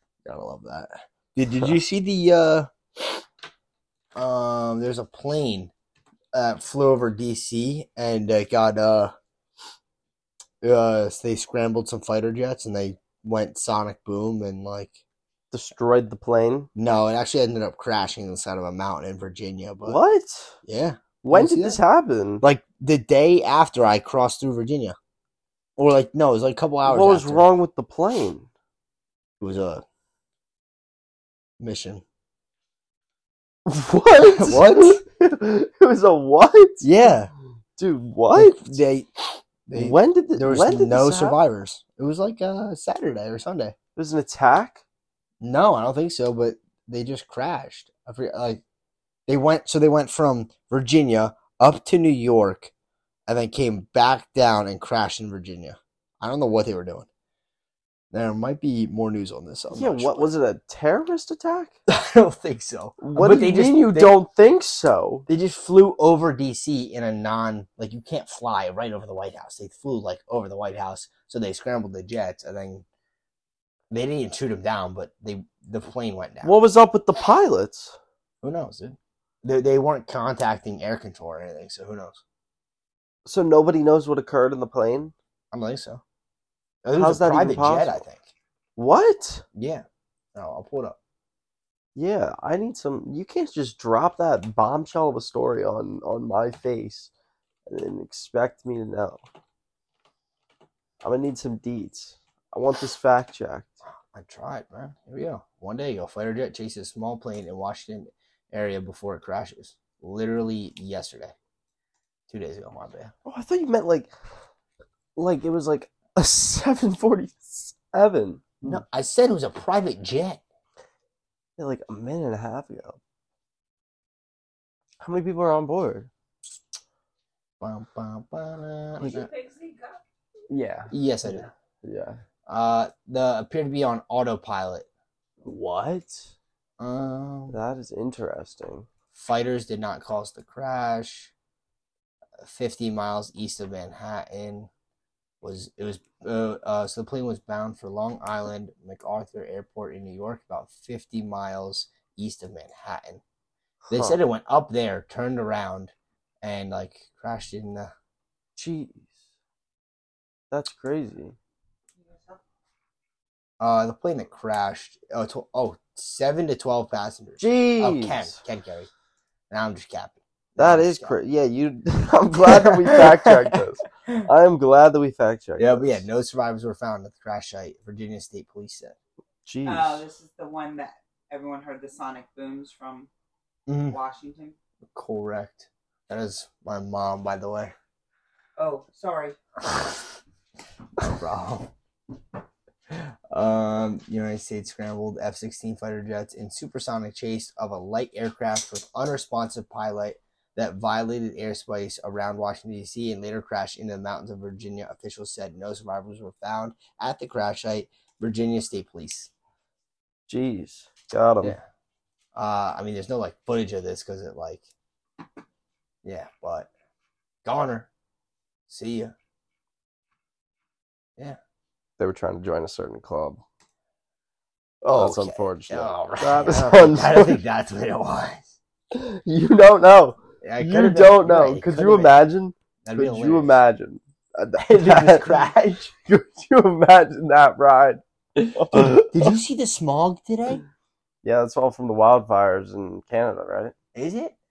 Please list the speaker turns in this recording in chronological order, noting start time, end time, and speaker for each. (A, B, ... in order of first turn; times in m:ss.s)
0:00.2-0:02.7 A
0:04.1-0:05.7 A
0:06.3-0:09.1 A
0:10.6-0:15.0 A
0:15.5-0:16.7 B
0:16.8-0:20.0 A
0:19.8-0:20.6 B
0:20.6-0:21.8 A
0:21.2-0:22.4 B
0:22.4-0:25.0 A
0:25.8-0:27.5 A
0:26.8-0:28.5 B
0:29.4-0:29.8 A
0:31.6-0:32.0 A
0:33.6-0:36.9 B
0:34.2-0:35.0 A
0:36.8-0:37.3 A
0:37.8-0:38.8 B
0:38.3-0:43.7 A
0:39.7-0:41.4 B
0:44.0-0:44.8 B
0:45.4-0:48.6 A
0:49.3-0:52.7 A
0:53.3-0:57.1 A
0:58.1-1:00.3 A
0:59.7-1:01.8 B
1:01.9-1:04.2 A
1:03.0-1:05.2 B
1:05.3-1:12.8 A
1:13.9-1:16.5 A
1:16.4-1:18.0 B
1:18.4-1:22.2 A
1:23.2-1:25.1 B
1:25.5-1:26.0 A
1:26.8-1:28.3 A
1:27.0-1:28.0 B
1:28.8-1:29.4 B
1:29.5-1:29.8 A
1:30.3-1:31.0 A
1:31.9-1:37.1 B
1:37.7-1:39.2 B
1:41.0-1:43.8 B
1:44.0-1:51.3 A
1:52.3-1:53.1 A
1:53.2-1:54.1 B
1:55.2-1:58.8 B
1:58.6-2:00.4 A
2:01.6-2:03.0 B
2:05.0-2:06.1 B
2:07.6-2:09.3 A
2:09.0-2:09.2 B
2:09.4-2:09.7 C
2:10.5-2:12.2 B
2:10.9-2:11.5 A
2:12.5-2:14.9 A
2:15.4-2:16.3 B
2:16.8-2:17.6 A
2:17.5-2:18.9 B
2:19.1-2:21.3 A
2:22.4-2:24.7 A
2:25.4-2:33.2 A
2:33.8-2:34.2 B
2:33.9-2:37.9 A
2:38.6-2:39.2 B
2:40.5-2:41.4 B
2:43.6-2:48.9 A
2:47.4-2:48.4 B
2:49.5-2:51.2 A
2:50.6-2:56.0 B
2:52.4-2:54.2 A
2:55.6-2:59.0 A
2:59.4-3:00.1 B
2:59.6-3:03.1 C
3:03.7-3:04.0 A
3:03.9-3:04.5 C
3:04.9-3:07.7 A
3:08.6-3:09.4 C
3:11.0-3:11.7 A
3:12.9-3:29.3 A
3:30.3-3:31.6 B
3:32.3-3:34.6 A
3:36.0-3:36.7 A
3:37.4-3:37.9 A
3:38.7-3:39.1 A
3:42.0-3:43.4 B
3:44.8-3:47.4 B
3:44.9-3:48.5 A
3:48.9-3:55.4 B
3:50.4-3:52.2 A
3:52.8-3:53.6 A
3:54.6-3:55.9 A
3:56.0-3:59.3 B
3:58.4-4:00.6 A
4:01.2-4:03.7 B
4:03.9-4:04.4 A